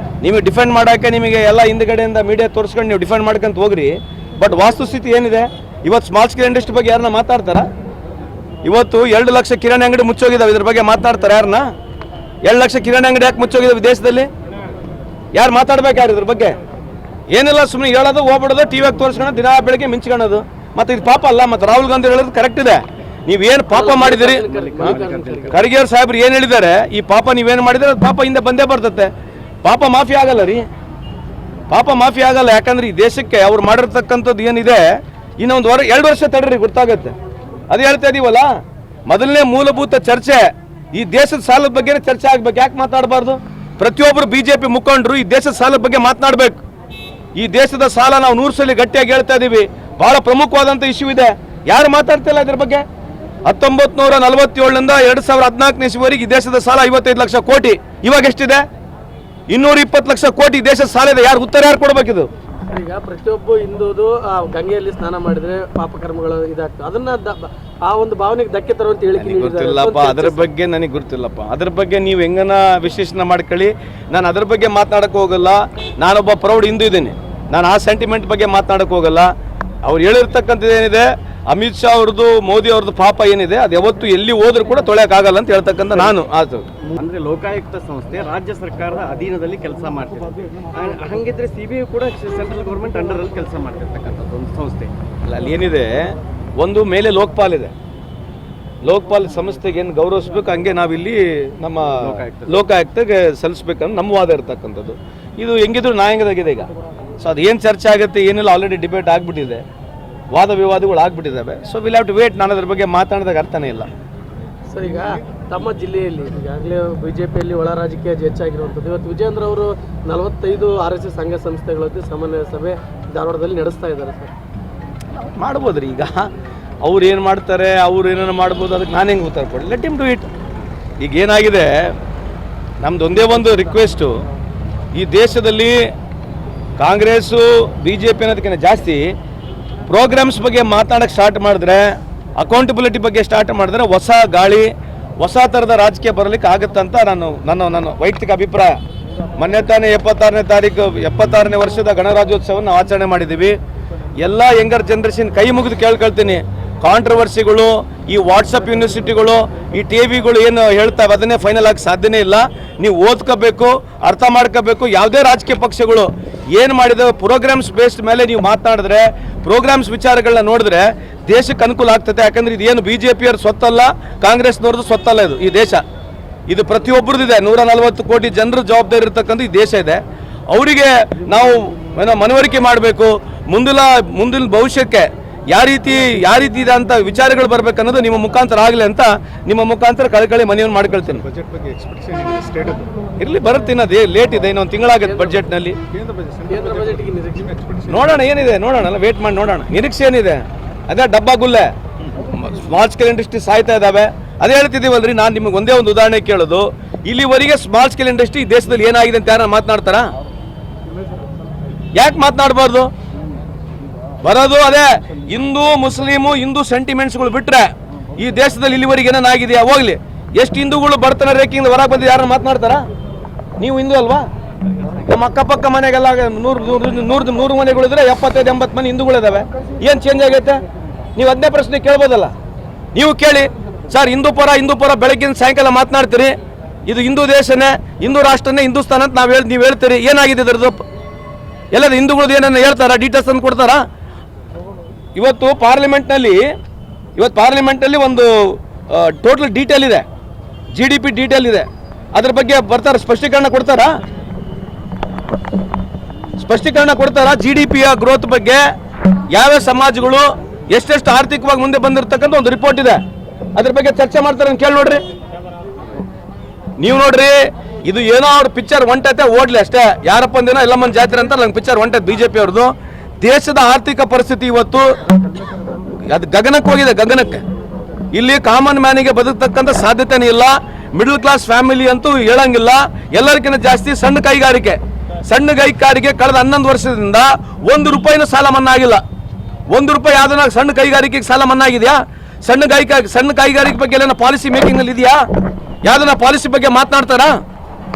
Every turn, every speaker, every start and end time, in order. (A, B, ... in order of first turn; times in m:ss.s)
0:00.2-0:07.7 A
0:08.6-0:11.7 A
0:12.4-0:14.3 A
0:15.3-0:16.6 A
0:17.3-0:25.0 A
0:23.7-0:25.6 B
0:24.5-0:25.5 C
0:25.5-0:29.1 A
0:29.6-0:30.6 A
0:31.7-0:34.9 A
0:35.4-0:37.2 A
0:37.7-0:38.5 A
0:39.1-0:46.6 A
0:47.4-0:52.8 A
0:53.5-0:58.6 A
0:59.5-1:02.3 A
1:02.7-1:10.4 B
1:09.2-1:19.3 A
1:19.8-1:26.7 A
1:26.8-1:34.9 C
1:35.3-1:37.7 A
1:38.8-1:46.7 A
1:42.0-1:42.6 C
1:47.2-1:49.6 A
1:50.3-1:53.9 A
1:54.7-2:04.3 B
2:05.4-2:06.3 A
2:06.8-2:10.3 A
2:11.0-2:11.9 A
2:12.8-2:14.1 A
2:15.0-2:15.8 A
2:16.8-2:19.0 A
2:19.9-2:28.8 A
2:29.4-2:33.6 A
2:34.2-2:55.8 A
2:56.5-3:11.3 A
3:11.4-3:12.9 D
3:13.2-3:15.8 A
3:15.1-3:15.4 B
3:16.0-3:16.4 D
3:16.5-3:17.8 B
3:17.8-3:30.1 A
3:32.0-3:32.9 A
3:34.2-3:42.8 A
3:43.6-3:44.2 A
3:45.0-3:50.6 A
3:51.2-3:52.3 A
3:52.9-3:56.3 A
3:56.9-4:00.8 A
4:01.7-4:03.8 A
4:05.2-4:06.4 A
4:07.2-4:10.1 A
4:10.8-4:13.9 A
4:16.4-4:18.7 A
4:19.3-4:23.0 A
4:23.6-4:25.0 A
4:26.8-4:34.9 A
4:36.1-4:37.4 A
4:38.1-4:49.0 A
4:49.7-4:55.2 A
4:55.8-4:57.4 A